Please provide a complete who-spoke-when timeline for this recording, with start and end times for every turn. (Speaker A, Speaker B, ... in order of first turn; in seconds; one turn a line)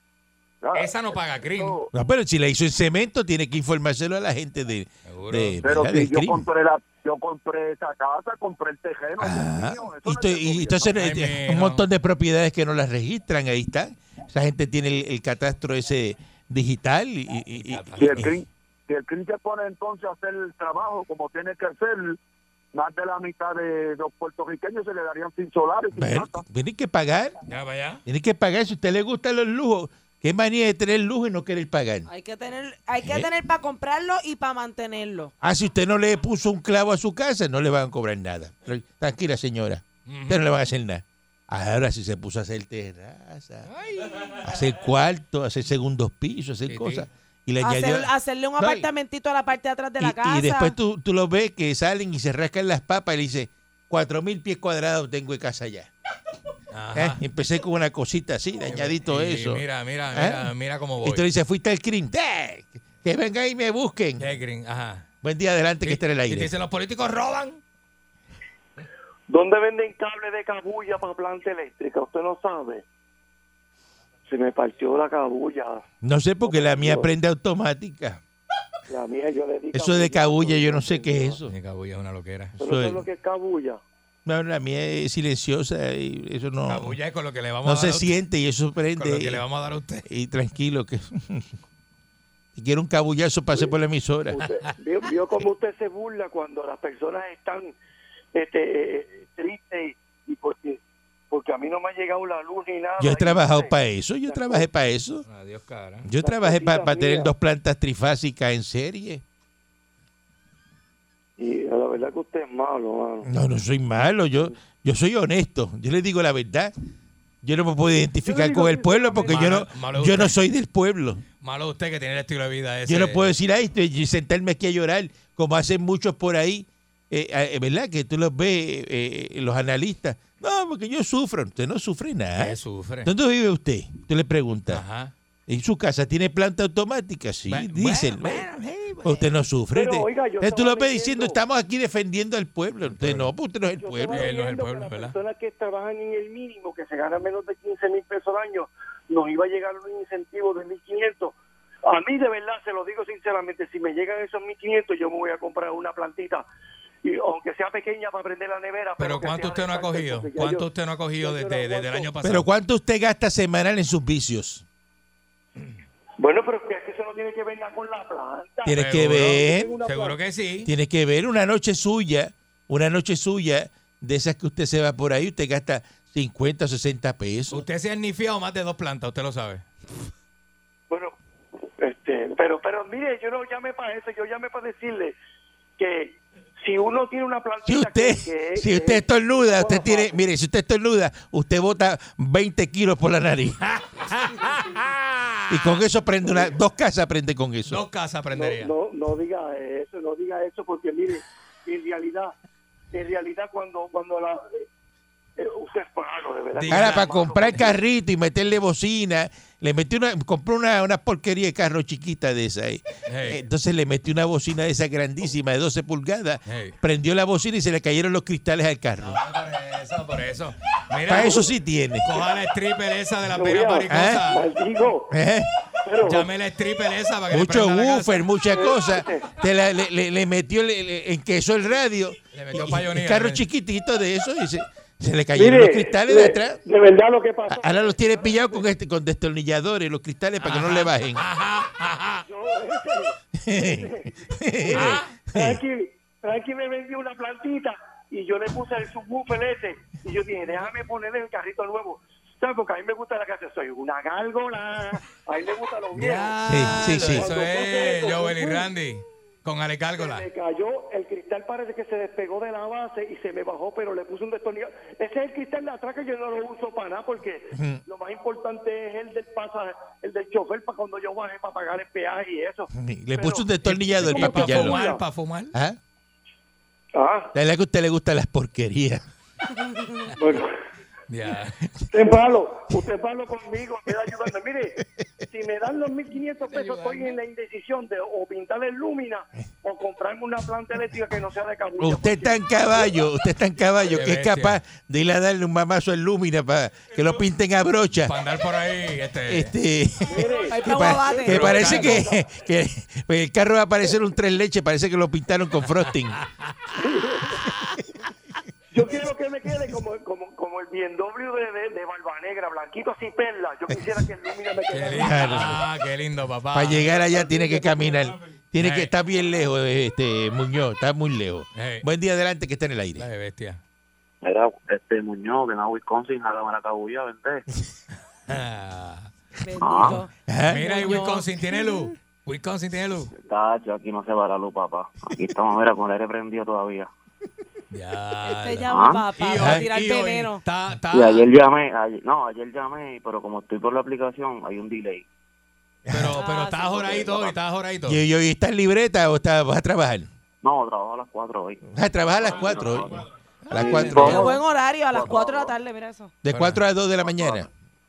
Speaker A: 0.6-1.9
Speaker B: 0.7-1.8
Speaker C: 1.9-6.4
Speaker B: 5.1-5.6
Speaker A: 5.6-10.9
Speaker C: 9.2-18.3
Speaker B: 10.9-11.8
Speaker B: 17.5-18.3
Speaker A: 17.9-22.2
Speaker A: 22.7-26.4
Speaker C: 25.9-27.4
Speaker B: 27.5-28.0
Speaker C: 28.1-32.1
Speaker D: 32.1-35.3
Speaker C: 33.0-33.3
Speaker C: 35.4-43.7
Speaker B: 40.0-40.4
Speaker B: 43.7-44.5
Speaker C: 44.2-48.9
Speaker B: 46.7-47.0
Speaker D: 47.6-50.8
Speaker C: 50.0-55.9
Speaker B: 56.7-57.2
Speaker C: 56.9-64.2
Speaker B: 58.7-61.2
Speaker B: 64.2-65.1
Speaker C: 65.2-66.5
Speaker B: 65.8-67.6
Speaker E: 69.3-72.8
Speaker E: 74.3-75.8
Speaker C: 76.0-78.2
Speaker E: 76.4-77.1
Speaker E: 78.9-81.4
Speaker C: 79.7-81.5
Speaker B: 81.5-82.6
Speaker E: 82.6-83.8
Speaker C: 82.6-83.0
Speaker C: 84.2-87.0
Speaker B: 86.7-88.1
Speaker C: 87.6-89.4
Speaker B: 89.0-90.0
Speaker C: 90.0-91.5
Speaker C: 92.5-94.4
Speaker E: 94.3-97.8
Speaker E: 98.3-103.7
Speaker C: 103.0-105.2
Speaker E: 104.3-104.7
Speaker B: 105.3-106.1
Speaker C: 106.0-109.2
Speaker E: 106.2-107.3
Speaker E: 111.4-113.3
Speaker C: 113.2-116.7
Speaker C: 117.4-121.2
Speaker E: 118.2-119.4
Speaker B: 119.3-120.3
Speaker B: 121.4-123.3
Speaker C: 122.8-134.8
Speaker B: 132.4-133.1
Speaker B: 134.7-135.1
Speaker C: 135.5-138.5
Speaker B: 137.5-139.2
Speaker C: 139.0-144.3
Speaker E: 139.7-141.4
Speaker B: 142.8-143.3
Speaker E: 143.8-156.4
Speaker B: 144.1-145.2
Speaker E: 157.0-160.7
Speaker B: 159.0-162.5
Speaker E: 161.2-162.1
Speaker C: 162.2-164.6
Speaker E: 166.2-168.8
Speaker C: 168.7-169.7
Speaker B: 168.8-170.7
Speaker E: 169.4-170.2
Speaker C: 170.6-177.6
Speaker B: 177.5-179.6
Speaker E: 180.9-181.2
Speaker E: 181.8-185.2
Speaker E: 185.8-190.2
Speaker C: 187.7-193.8
Speaker B: 194.0-195.8
Speaker C: 195.5-197.8
Speaker B: 197.7-198.7
Speaker E: 198.3-202.3
Speaker E: 202.9-204.6
Speaker E: 205.4-207.8
Speaker B: 206.6-207.7
Speaker C: 206.7-219.2
Speaker B: 213.1-213.4
Speaker B: 216.5-216.8
Speaker B: 219.0-221.5
Speaker C: 221.1-222.1
Speaker B: 222.0-224.4
Speaker E: 223.3-225.1
Speaker C: 223.9-224.3
Speaker C: 225.1-225.5
Speaker E: 225.8-226.3
Speaker B: 226.0-228.3
Speaker C: 227.3-236.6
Speaker E: 228.5-229.3
Speaker B: 232.3-233.4
Speaker E: 235.3-238.6
Speaker C: 237.5-241.2
Speaker B: 240.4-242.2
Speaker E: 242.2-258.7
Speaker C: 243.3-245.6
Speaker B: 244.7-245.1
Speaker B: 255.9-260.3
Speaker C: 256.4-257.3
Speaker E: 260.0-275.0
Speaker C: 267.5-267.8
Speaker C: 272.7-274.8
Speaker B: 273.6-275.5
Speaker C: 275.5-275.8
Speaker E: 276.9-277.3
Speaker C: 277.3-279.0
Speaker E: 280.2-280.5
Speaker B: 281.1-281.6
Speaker E: 281.9-284.8
Speaker E: 285.3-292.4
Speaker B: 286.5-287.2
Speaker C: 291.8-298.1
Speaker B: 293.9-294.6
Speaker B: 298.0-299.5
Speaker C: 299.3-306.2
Speaker E: 300.1-302.2
Speaker D: 300.3-301.5
Speaker B: 301.3-302.0
Speaker B: 306.1-306.6
Speaker E: 306.8-307.5
Speaker E: 308.7-315.5
Speaker B: 314.7-316.9
Speaker C: 314.9-315.6
Speaker C: 316.5-323.1
Speaker E: 317.0-318.0
Speaker B: 318.6-318.9
Speaker B: 321.5-321.9
Speaker B: 323.0-323.6
Speaker F: 324.2-327.4
Speaker B: 328.3-329.1
Speaker D: 329.4-331.8
Speaker F: 329.6-330.0
Speaker B: 329.8-333.1
Speaker C: 330.3-331.0
Speaker F: 333.1-336.9
Speaker B: 337.7-341.2
Speaker D: 338.2-340.4
Speaker F: 338.7-339.1
Speaker C: 339.4-339.6
Speaker F: 340.9-345.1
Speaker C: 345.9-346.2
Speaker B: 345.9-348.0
Speaker D: 346.2-347.3
Speaker F: 346.9-347.3
Speaker C: 347.9-350.1
Speaker F: 350.4-351.6
Speaker C: 351.7-354.3
Speaker F: 352.1-355.6
Speaker B: 353.4-354.4
Speaker D: 353.9-356.1
Speaker C: 356.2-357.5
Speaker B: 356.3-356.6
Speaker F: 357.0-357.4